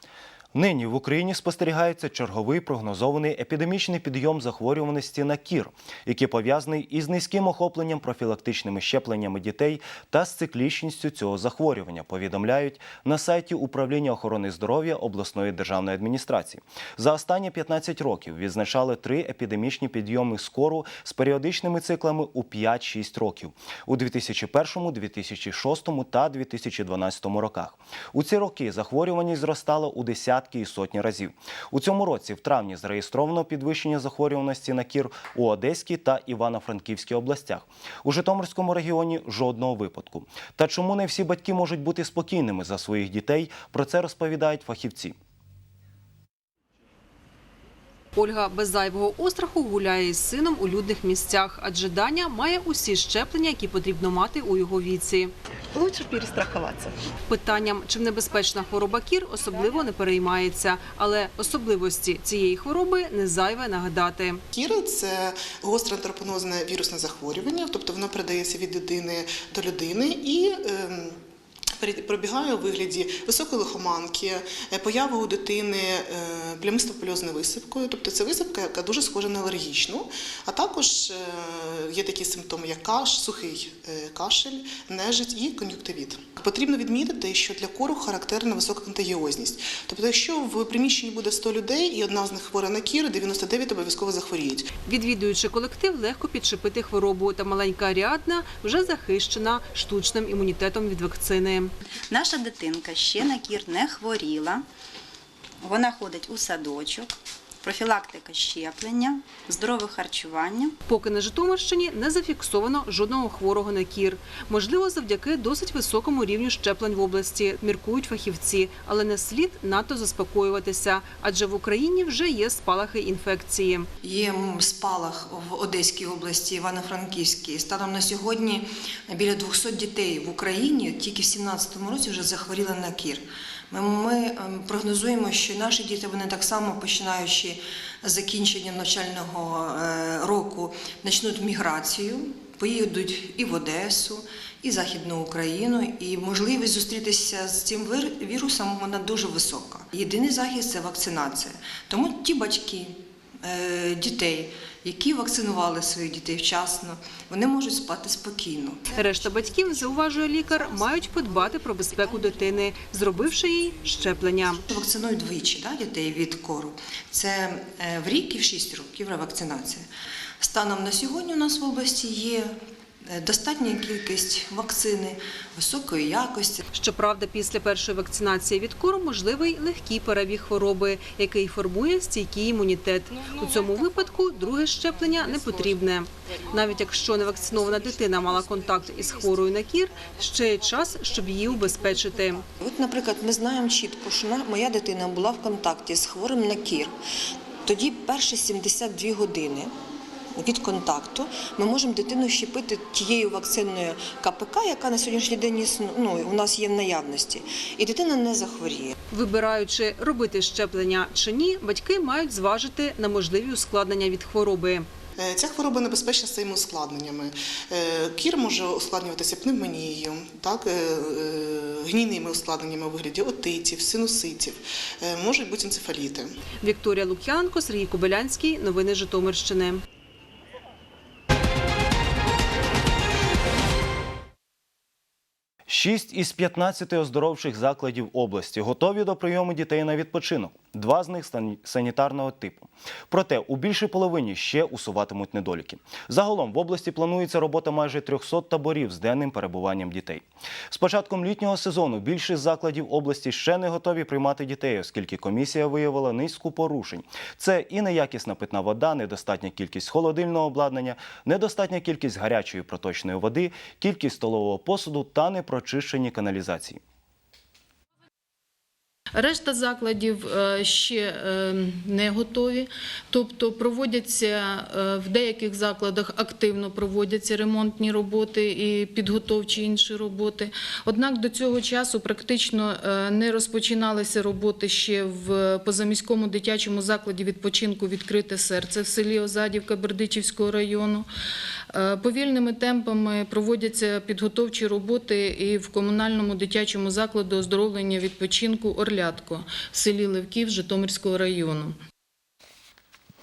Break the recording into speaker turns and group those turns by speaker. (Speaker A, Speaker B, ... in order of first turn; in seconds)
Speaker A: 0.6-45.2, 235.7-266.8
Speaker B: 48.2-55.3, 57.3-64.4, 94.8-101.7, 110.9-123.9, 158.9-164.6, 176.7-192.4, 209.1-214.9, 226.6-229.8
Speaker C: 64.5-71.2, 71.8-94.7, 215.2-226.3
Speaker D: 102.1-104.7, 105.6-110.8
Speaker E: 124.0-158.9, 164.7-169.9, 170.4-176.6, 192.6-196.9, 197.7-199.7, 200.4-208.9
Speaker F: 269.1-291.1, 291.7-301.8